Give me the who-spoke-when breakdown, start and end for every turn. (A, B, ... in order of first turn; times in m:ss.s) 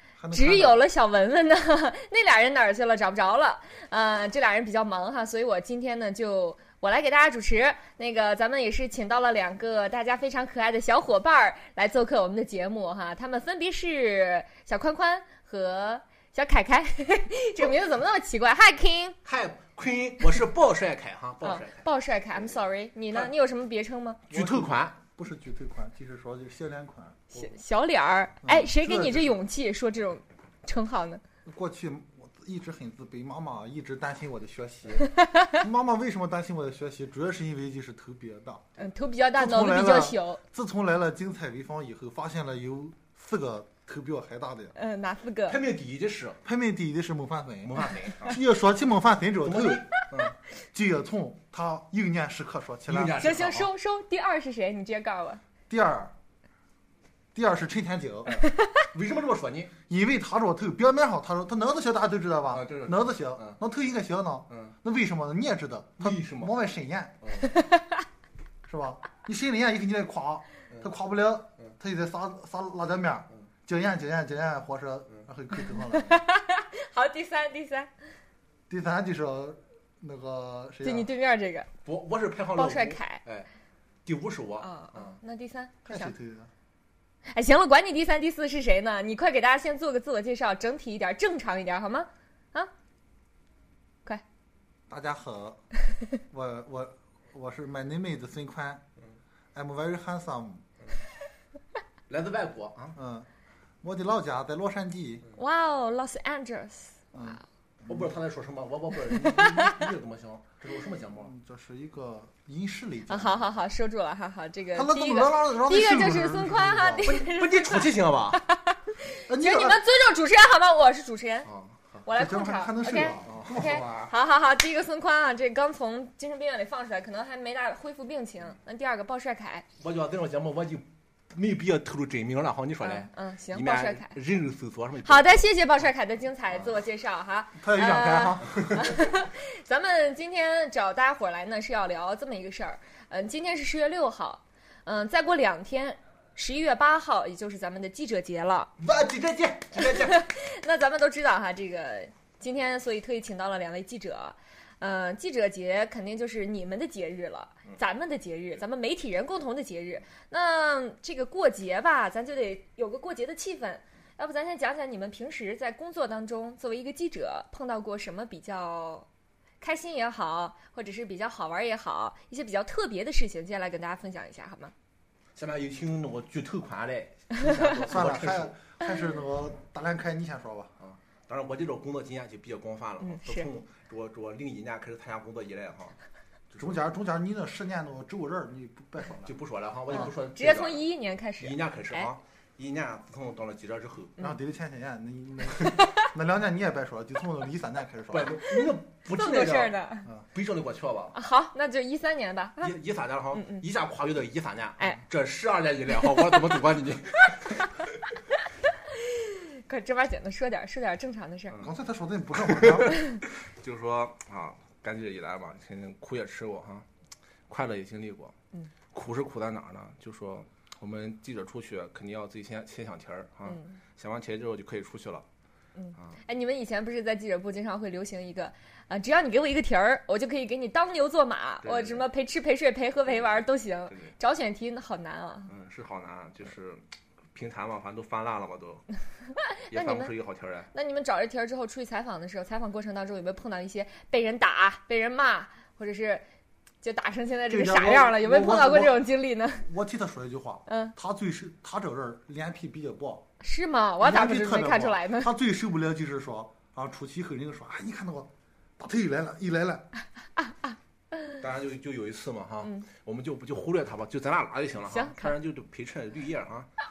0:00.2-0:00.8 A
0:00.3-0:19.2 B
0:19.2-0:22.6 C
0:21.4-0:24.2 B
0:24.3-0:25.0 C
0:24.3-0:27.4 A
0:27.3-0:31.2 B
0:28.4-0:29.4 A
0:31.4-0:38.6 A
0:35.0-0:35.6 B
0:38.8-0:40.4 B
0:39.3-0:44.7 A
0:44.7-0:45.6 B
0:45.5-0:46.4 C
0:46.4-0:50.0 A
0:47.6-0:48.4 C
0:49.4-0:50.3 C
0:50.5-0:53.2 A
0:52.9-0:53.7 C
0:53.2-0:55.4 B
0:55.7-0:56.1 A
0:57.3-0:58.4 A
0:58.2-0:59.7 C
0:59.9-1:07.2 A
1:02.5-1:03.6 C
1:04.5-1:04.7 C
1:06.0-1:06.5 C
1:07.2-1:07.5 C
1:07.5-1:08.0 B
1:08.7-1:16.2 A
1:15.6-1:17.9 B
1:18.7-1:21.1 A
1:20.8-1:21.7 B
1:21.8-1:23.5 C
1:22.5-1:23.2 B
1:24.0-1:25.2 C
1:24.6-1:26.1 B
1:25.8-1:26.5 A
1:27.2-1:32.7 B
1:34.9-1:35.6 A
1:36.3-1:38.8 A
1:39.5-1:40.6 A
1:42.1-1:43.0 C
1:42.9-1:43.3 A
1:43.8-1:45.2 A
1:45.3-1:47.4 B
1:47.1-1:48.1 A
1:47.9-1:51.3 C
1:49.2-1:49.7 B
1:51.1-1:53.5 A
1:53.1-2:01.5 B
1:54.7-1:57.2 A
1:57.0-1:58.4 C
1:59.3-1:59.8 A
2:01.4-2:02.0 C
2:02.0-2:09.6 B
2:02.1-2:03.8 A
2:03.0-2:04.1 C
2:09.8-2:15.5 C
2:12.8-2:14.1 B
2:15.0-2:28.7 B
2:17.6-2:18.6 A
2:18.4-2:18.8 C
2:28.8-2:30.3 C
2:29.8-2:49.1 B
2:49.6-2:54.7 B
2:55.3-2:58.5 C
2:57.8-3:00.7 A
3:00.8-3:06.0 C
3:03.0-3:03.5 B
3:06.5-3:06.8 C
3:06.6-3:09.3 A
3:09.2-3:10.8 C
3:09.9-3:12.1 B
3:11.4-3:14.2 C
3:14.2-3:18.5 A
3:18.1-3:19.8 C
3:18.6-3:20.1 B
3:20.3-3:21.2 C
3:21.1-3:22.7 B
3:22.6-3:27.7 C
3:23.3-3:23.6 B
3:24.8-3:25.0 B
3:28.9-3:31.6 B
3:31.6-3:33.0 A
3:32.3-3:36.8 C
3:37.5-3:38.3 C
3:38.9-3:45.2 C
3:43.4-3:43.8 B
3:45.8-3:55.5 B
3:51.6-3:52.1 C
3:53.1-3:54.1 C
3:55.5-3:56.8 C
3:57.3-3:58.8 C
3:59.6-4:00.1 B
3:59.7-4:00.7 C
4:00.7-4:06.2 B
4:06.8-4:09.6 B
4:07.5-4:13.2 A
4:10.6-4:10.9 B
4:13.4-4:15.3 B
4:14.0-4:19.9 A
4:20.5-4:21.3 B
4:21.4-4:26.7 C
4:24.8-4:25.4 B